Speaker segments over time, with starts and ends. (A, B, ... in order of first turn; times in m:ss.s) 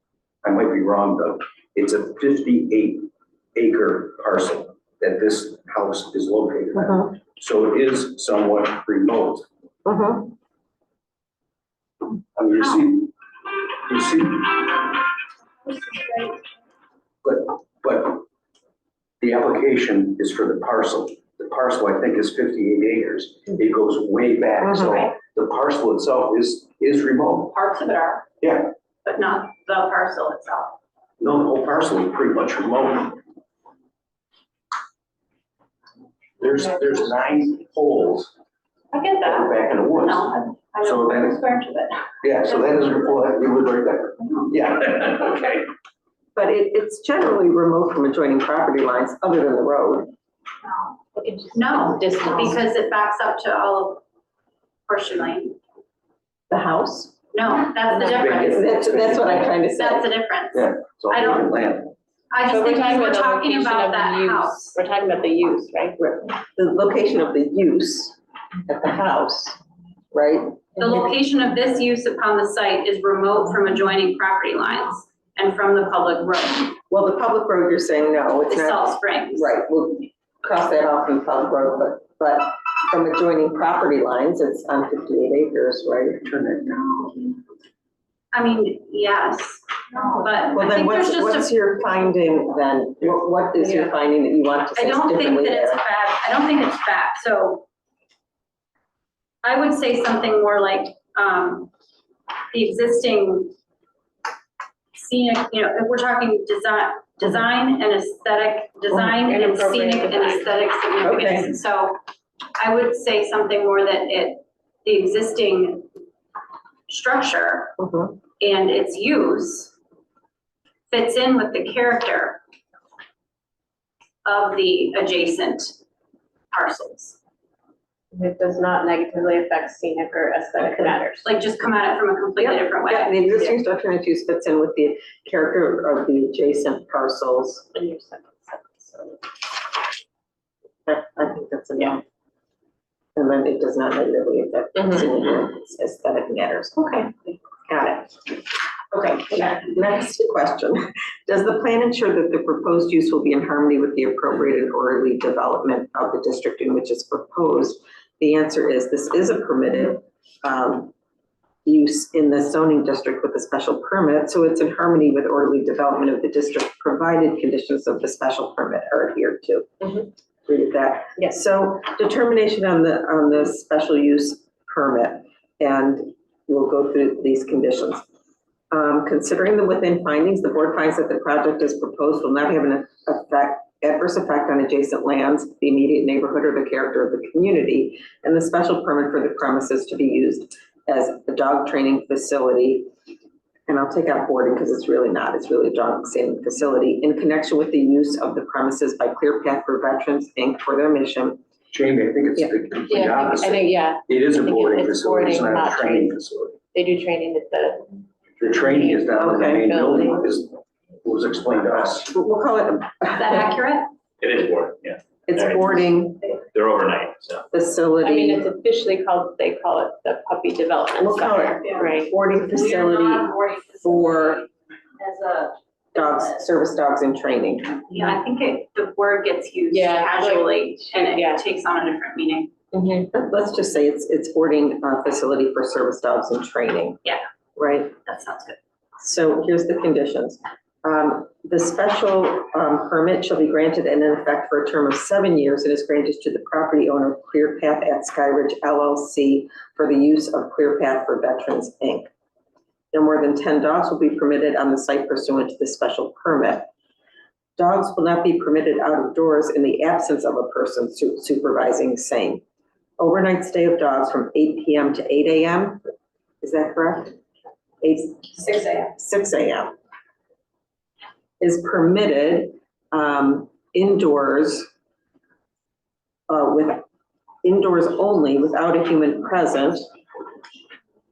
0:00.4-0:09.5 A
0:06.8-0:07.1 B
0:09.8-0:10.3 B
0:12.4-0:13.1 A
0:13.9-0:14.8 A
0:15.6-0:16.4 C
0:17.2-0:18.2 A
0:19.2-0:27.6 A
0:24.6-0:25.0 B
0:24.8-0:25.1 C
0:27.5-0:28.3 C
0:28.4-0:28.7 A
0:29.0-0:30.8 C
0:31.2-0:33.2 A
0:36.4-0:38.3 A
0:38.9-0:43.2 C
0:39.2-0:41.4 A
0:42.2-0:45.7 A
0:44.2-0:44.5 C
0:46.4-0:50.1 B
0:51.1-0:52.6 D
0:51.5-0:54.0 C
0:54.9-0:55.6 C
0:56.5-0:57.2 B
0:57.3-0:59.0 C
0:57.9-0:58.2 D
0:58.0-0:59.5 A
0:58.4-1:00.1 B
0:59.6-1:01.6 C
1:00.5-1:01.9 A
1:02.3-1:04.8 C
1:02.5-1:06.0 D
1:06.0-1:09.6 B
1:10.1-1:11.1 B
1:10.8-1:16.8 C
1:16.9-1:26.2 B
1:18.5-1:19.5 C
1:26.2-1:27.0 A
1:28.3-1:31.5 C
1:30.6-1:35.8 B
1:33.6-1:34.0 D
1:34.8-1:37.7 C
1:39.4-1:41.7 C
1:42.5-1:43.5 C
1:45.0-1:52.0 C
1:48.9-1:50.6 D
1:51.0-1:51.5 B
1:52.6-1:55.9 C
1:56.9-1:57.7 C
1:57.8-1:58.2 B
1:58.4-1:59.7 C
2:00.9-2:02.4 C
2:04.2-2:05.8 C
2:06.5-2:07.2 C
2:08.1-2:11.3 D
2:11.2-2:13.6 C
2:12.4-2:17.7 B
2:17.7-2:19.2 D
2:20.9-2:22.0 B
2:23.2-2:27.1 B
2:26.8-2:27.1 D
2:27.7-2:40.9 B
2:41.6-2:58.0 B
2:58.7-3:12.9 B
3:13.7-3:21.4 B
3:21.7-3:26.6 A
3:22.9-3:26.2 D
3:26.7-3:30.4 D
3:28.4-3:32.1 A
3:29.2-3:29.7 B
3:32.1-3:33.5 B
3:33.2-3:33.9 C
3:34.2-3:36.0 E
3:35.3-3:36.2 B
3:36.5-3:37.5 E
3:37.5-3:38.4 B
3:38.0-3:42.1 D
3:41.0-3:44.4 B
3:41.6-3:41.9 C
3:42.4-3:46.4 C
3:45.9-3:47.8 B
3:47.9-3:52.5 C
3:49.7-3:51.4 D
3:52.7-3:53.1 D
3:53.1-3:57.0 B
3:57.6-3:58.0 B
3:58.1-3:58.6 C
3:59.0-4:12.1 B
4:12.9-4:16.7 B
4:17.6-4:22.4 B
4:23.0-4:25.8 B
4:26.4-4:27.2 B
4:27.8-4:29.7 B
4:28.5-4:28.9 C
4:31.4-4:34.7 B
4:36.3-4:36.8 B
4:37.4-4:39.8 B